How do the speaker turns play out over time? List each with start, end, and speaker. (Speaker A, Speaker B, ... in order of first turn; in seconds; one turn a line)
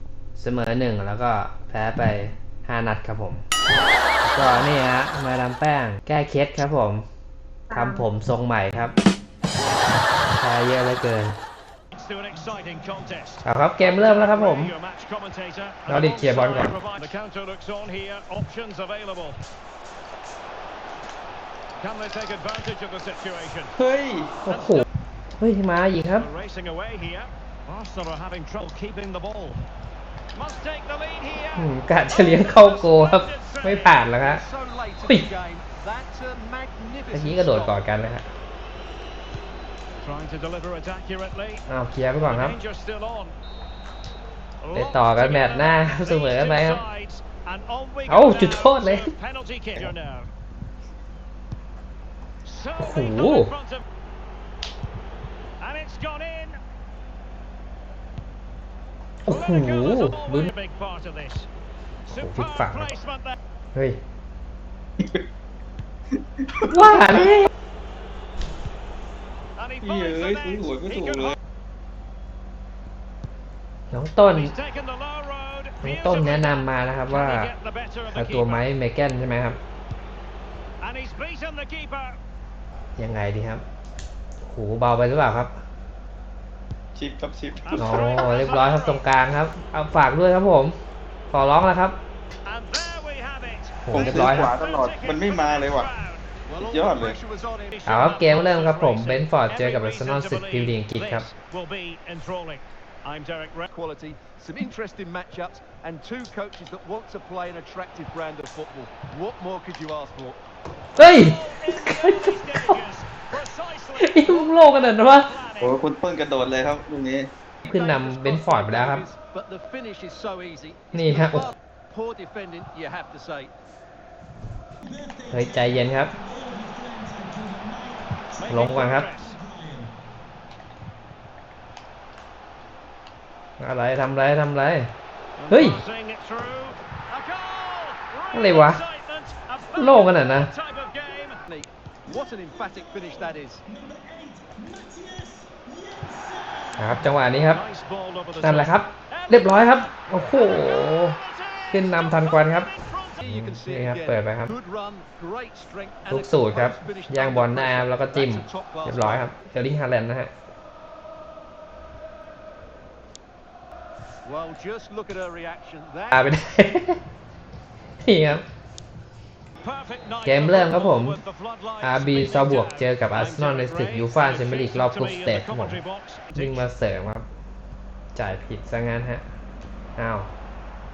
Speaker A: 0.4-3.4
Speaker A: 4.3-7.0
Speaker A: 7.7-8.9
Speaker A: 10.3-11.3
Speaker B: 11.9-19.4
Speaker A: 13.4-14.7
Speaker A: 15.9-16.8
Speaker B: 21.8-23.7
Speaker C: 23.8-24.4
Speaker A: 24.5-24.9
Speaker B: 24.6-24.9
Speaker A: 25.4-26.3
Speaker B: 26.2-29.6
Speaker B: 30.3-33.9
Speaker A: 31.6-34.4
Speaker D: 34.0-37.8
Speaker A: 37.1-38.3
Speaker B: 40.0-41.6
Speaker A: 41.7-42.6
Speaker B: 42.3-43.4
Speaker B: 44.6-50.3
Speaker A: 44.7-46.8
Speaker A: 48.1-49.1
Speaker B: 52.5-53.8
Speaker A: 52.8-53.5
Speaker B: 55.6-56.6
Speaker A: 59.3-60.5
Speaker B: 59.3-61.5
Speaker B: 62.1-63.4
Speaker A: 62.1-63.0
Speaker A: 63.8-64.0
Speaker C: 65.0-65.2
Speaker C: 66.4-67.5
Speaker A: 66.7-67.5
Speaker B: 69.6-71.3
Speaker C: 69.8-71.4
Speaker A: 73.9-74.6
Speaker B: 74.4-78.6
Speaker A: 75.8-77.5
Speaker A: 78.1-79.6
Speaker B: 80.8-82.2
Speaker A: 83.0-83.6
Speaker A: 84.4-85.6
Speaker C: 87.0-88.3
Speaker B: 87.7-89.0
Speaker A: 87.8-90.8
Speaker A: 91.3-92.0
Speaker B: 92.5-93.8
Speaker A: 93.8-94.6
Speaker C: 93.9-95.9
Speaker D: 94.0-94.5
Speaker B: 94.6-96.4
Speaker D: 96.5-97.8
Speaker C: 96.6-97.2
Speaker B: 97.8-103.7
Speaker A: 97.9-101.3
Speaker D: 103.7-110.4
Speaker A: 111.0-112.8
Speaker B: 111.0-114.4
Speaker A: 114.0-115.3
Speaker B: 115.3-115.8
Speaker C: 115.6-117.3
Speaker D: 117.7-123.5
Speaker A: 117.7-119.0
Speaker A: 120.9-121.5
Speaker A: 125.3-126.2
Speaker B: 128.4-129.4
Speaker A: 128.4-129.1
Speaker A: 133.6-134.9
Speaker B: 135.4-141.4
Speaker A: 135.5-135.8
Speaker A: 138.3-138.8
Speaker A: 139.8-140.5
Speaker D: 141.5-143.6
Speaker A: 146.8-147.6
Speaker B: 147.4-153.2
Speaker A: 148.4-151.2
Speaker A: 151.7-152.7
Speaker A: 153.2-154.5
Speaker D: 153.2-159.3
Speaker A: 156.1-160.3
Speaker D: 164.2-166.3
Speaker A: 166.1-167.0
Speaker A: 168.0-168.4
Speaker B: 169.6-176.6
Speaker A: 170.2-171.2
Speaker A: 171.8-175.8
Speaker A: 176.4-177.2
Speaker A: 178.2-179.2
Speaker A: 180.0-180.3